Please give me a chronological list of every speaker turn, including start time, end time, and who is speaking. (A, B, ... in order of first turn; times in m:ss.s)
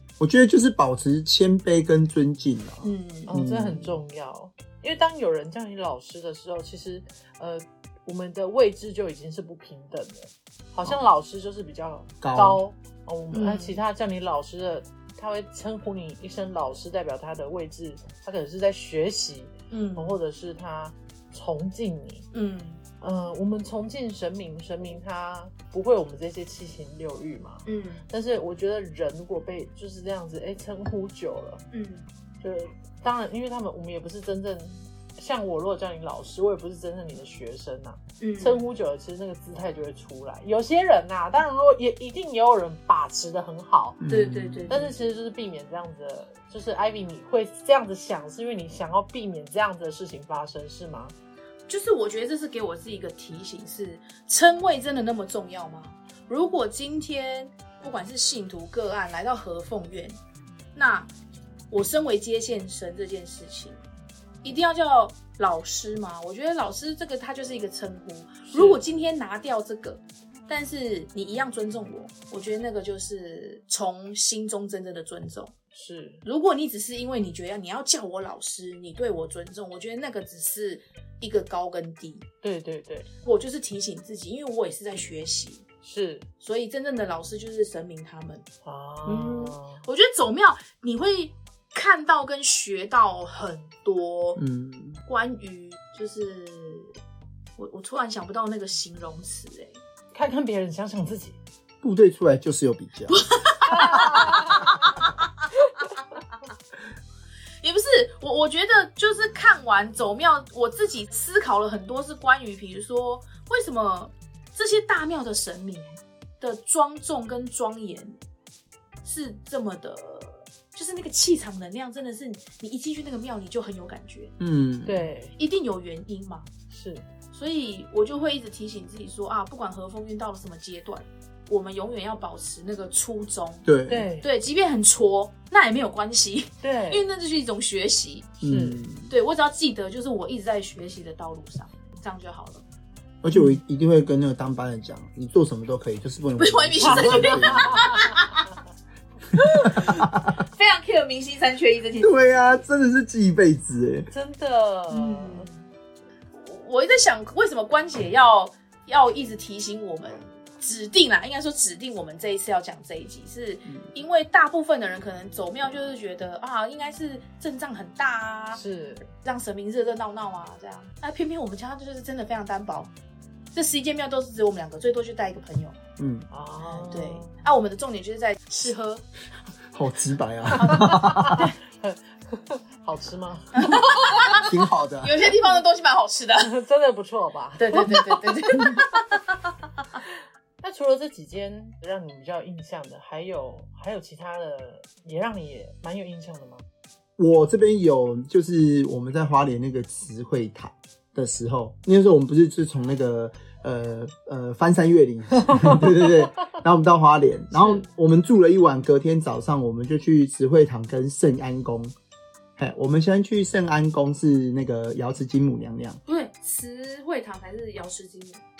0:00.2-0:04.0 A
0:02.8-0:03.3 B
0:03.3-0:22.3 C
0:12.2-0:12.6 A
0:13.3-0:13.8 B
0:19.7-0:20.2 B
0:22.3-0:22.8 B
0:23.0-0:31.6 C
0:27.7-0:28.0 B
0:31.7-0:32.1 B
0:32.4-0:44.0 C
0:38.2-0:38.6 B
0:44.0-0:44.7 A
0:44.1-0:44.9 B
0:44.7-0:51.2 C
0:51.7-1:00.2 B
1:00.8-1:01.1 B
1:01.7-1:03.8 B
1:04.4-1:15.5 B
1:08.5-1:08.8 C
1:15.8-1:16.2 C
1:16.2-1:22.2 B
1:22.4-1:23.1 C
1:23.2-1:25.6 B
1:25.8-1:26.3 C
1:26.4-1:28.4 B
1:28.6-1:29.8 C
1:29.0-1:34.4 B
1:34.4-1:35.0 A
1:35.1-1:36.9 B
1:37.6-1:39.8 B
1:40.1-1:41.4 C
1:41.8-1:43.2 A
1:43.1-1:45.2 B
1:43.7-1:44.8 C
1:47.6-1:58.2 B
1:59.0-2:04.3 B
2:04.4-2:05.1 A
2:04.9-2:05.3 C
2:05.4-2:06.5 B
2:06.7-2:07.1 C
2:07.3-2:13.7 B
2:13.6-2:14.1 A
2:13.9-2:14.3 C
2:14.2-2:18.4 B
2:16.6-2:17.0 C
2:18.4-2:18.8 C
2:18.4-2:19.1 A
2:19.1-2:22.6 B
2:23.2-2:27.9 A
2:23.3-2:23.6 C
2:26.4-2:28.5 B
2:26.8-2:28.2 C
2:29.4-2:32.6 B
2:29.6-2:30.3 A
2:32.0-2:34.1 A
2:34.1-2:35.5 C
2:34.9-2:35.7 B
2:36.3-2:48.6 B
2:48.6-2:49.1 C
2:49.2-2:52.9 B
2:53.5-2:55.8 B
2:56.0-2:56.3 A
2:56.3-2:57.4 C
2:56.9-2:59.0 B
2:59.7-3:01.5 A
3:00.6-3:01.6 B
3:00.7-3:04.4 C
3:03.6-3:06.5 B
3:04.4-3:05.2 A
3:06.4-3:08.9 C
3:07.6-3:09.4 B
3:10.6-3:16.6 C
3:17.2-3:31.9 A
3:25.5-3:25.8 C
3:27.6-3:27.8 C
3:32.6-3:36.0 A
3:36.1-3:38.4 B